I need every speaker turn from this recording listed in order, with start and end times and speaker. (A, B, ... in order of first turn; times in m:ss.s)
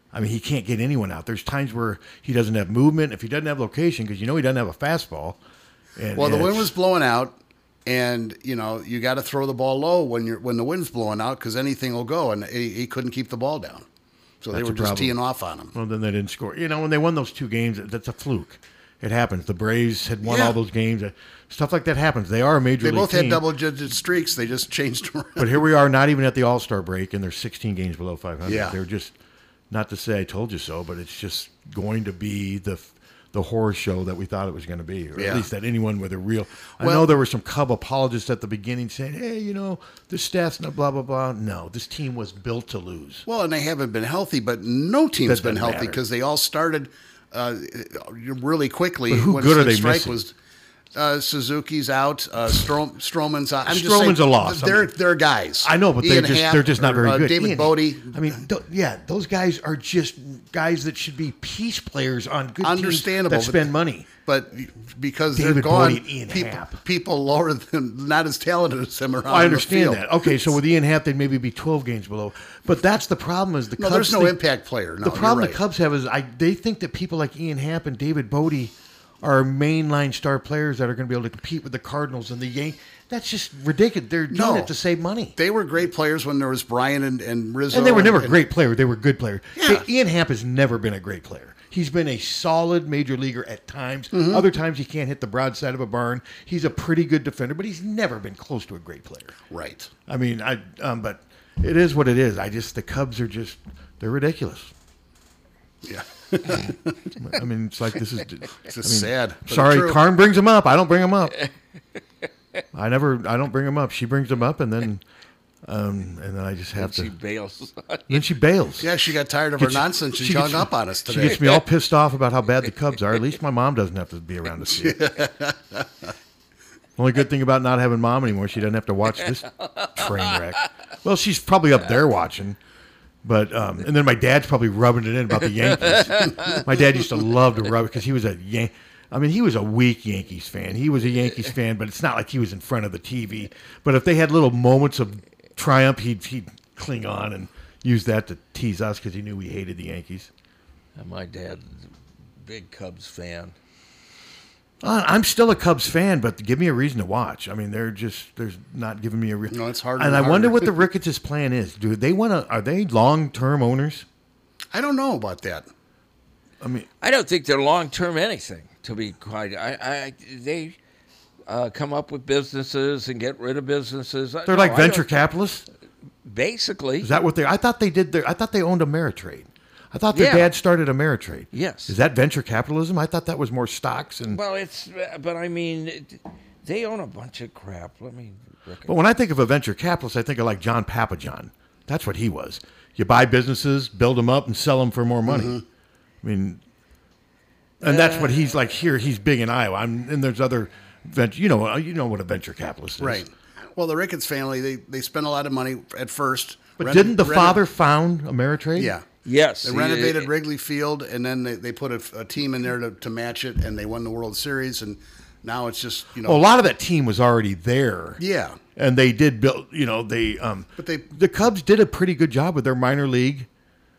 0:00.1-0:05.4 A
0:06.0-0:06.7 A
0:06.2-0:13.9 B
0:14.4-0:15.7 B
0:14.5-0:15.2 A
0:15.7-0:23.4 A
0:20.3-0:20.6 B
0:22.8-0:25.5 B
0:25.4-0:29.2 A
0:28.4-0:28.8 B
0:29.7-0:43.2 A
0:35.2-0:35.5 B
0:36.8-0:37.1 B
0:43.3-0:50.3 B
0:45.2-0:46.0 A
0:49.1-0:50.2 A
0:50.9-0:58.3 B
0:53.7-0:54.9 A
0:55.6-1:04.1 A
1:02.6-1:10.5 B
1:05.3-1:06.8 A
1:09.3-1:14.4 A
1:13.8-1:15.6 B
1:15.0-1:25.4 A
1:24.3-1:24.7 B
1:25.4-1:28.4 B
1:27.7-1:39.4 A
1:29.6-1:29.8 B
1:34.1-1:34.4 B
1:39.5-1:39.9 B
1:40.1-1:44.7 A
1:45.8-1:47.0 B
1:47.2-1:51.4 A
1:48.7-1:50.0 B
1:52.7-1:55.0 A
1:55.7-1:57.1 A
1:56.8-1:58.2 C
1:58.1-1:58.9 A
1:58.8-2:01.4 B
1:59.6-2:05.0 A
2:04.7-2:06.1 B
2:07.0-2:12.6 A
2:09.6-2:10.4 C
2:13.2-2:30.3 A
2:15.8-2:16.6 C
2:31.0-2:31.9 C
2:32.4-2:33.6 C
2:34.8-2:44.1 A
2:39.5-2:40.9 B
2:44.7-2:45.7 B
2:46.6-2:46.9 A
2:47.0-2:50.8 C
2:51.5-2:55.1 C
2:54.5-2:55.7 A
2:56.2-2:57.1 C
2:57.0-3:04.4 A
3:00.1-3:00.5 C
3:01.5-3:02.0 C
3:04.3-3:09.0 C
3:08.9-3:15.6 A
3:15.3-3:15.6 B
3:16.2-3:16.6 A
3:17.8-3:23.3 A
3:17.8-3:18.7 C
3:23.0-3:27.6 B
3:26.8-3:29.0 A
3:28.8-3:29.1 B
3:29.2-3:30.3 C
3:29.6-3:36.4 B
3:36.2-3:38.2 A
3:38.2-3:38.6 B
3:38.8-3:43.5 A
3:40.8-3:41.1 B